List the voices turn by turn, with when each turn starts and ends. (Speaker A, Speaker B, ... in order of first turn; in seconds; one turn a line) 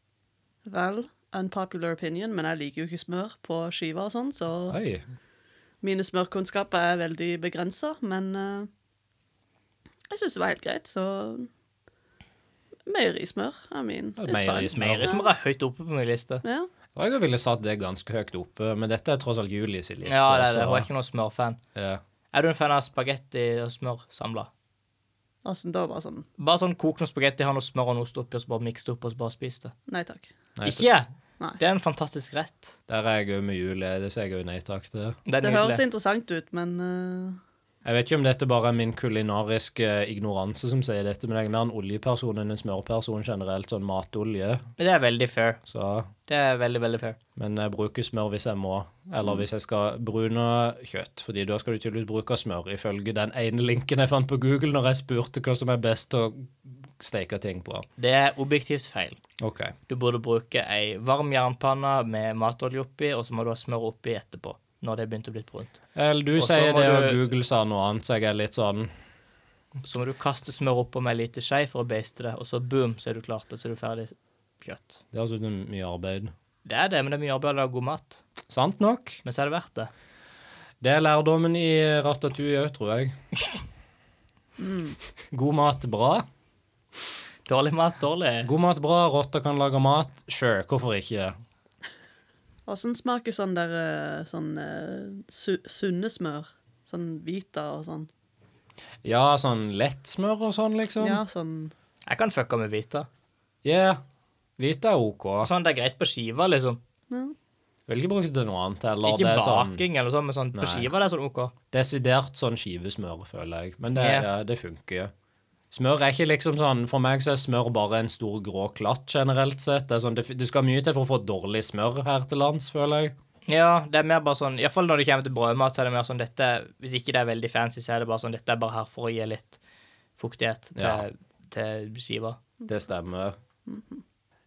Speaker A: 0.7-4.8
Speaker B: 4.7-5.0
Speaker A: 5.8-8.7
Speaker A: 10.1-11.5
Speaker A: 12.8-15.3
Speaker B: 14.2-15.1
Speaker C: 14.7-16.4
Speaker A: 16.4-16.7
Speaker B: 16.9-20.9
Speaker C: 20.1-21.6
Speaker B: 21.7-22.0
Speaker C: 22.3-24.5
Speaker A: 25.4-26.3
Speaker C: 26.4-29.7
Speaker A: 29.9-30.3
Speaker B: 30.6-30.9
Speaker C: 30.6-32.7
Speaker B: 32.9-35.2
Speaker C: 35.3-35.8
Speaker A: 35.4-37.4
Speaker B: 37.8-44.6
Speaker C: 44.8-45.6
Speaker B: 45.7-46.1
Speaker C: 46.3-47.2
Speaker B: 47.4-57.9
Speaker C: 58.0-59.2
Speaker B: 59.4-59.7
Speaker C: 59.9-65.8
Speaker B: 65.9-68.9
Speaker C: 66.3-67.2
Speaker C: 69.8-75.0
Speaker B: 75.1-76.3
Speaker C: 76.7-78.2
Speaker B: 78.5-79.2
Speaker C: 79.2-79.9
Speaker B: 80.8-83.1
Speaker A: 84.6-85.0
Speaker B: 85.3-86.2
Speaker C: 87.5-88.5
Speaker B: 88.4-91.3
Speaker A: 92.7-98.1
Speaker B: 99.0-101.2
Speaker A: 101.0-101.7
Speaker C: 102.1-103.1
Speaker B: 103.6-104.0
Speaker B: 104.6-105.5
Speaker C: 105.4-106.8
Speaker A: 107.1-107.3
Speaker B: 107.9-109.8
Speaker C: 109.0-111.5
Speaker B: 110.5-110.9
Speaker B: 111.7-115.1
Speaker C: 114.0-114.3
Speaker B: 115.7-123.1
Speaker C: 123.5-129.6
Speaker C: 130.2-132.4
Speaker B: 130.8-131.0
Speaker B: 132.7-133.3
Speaker A: 133.7-134.0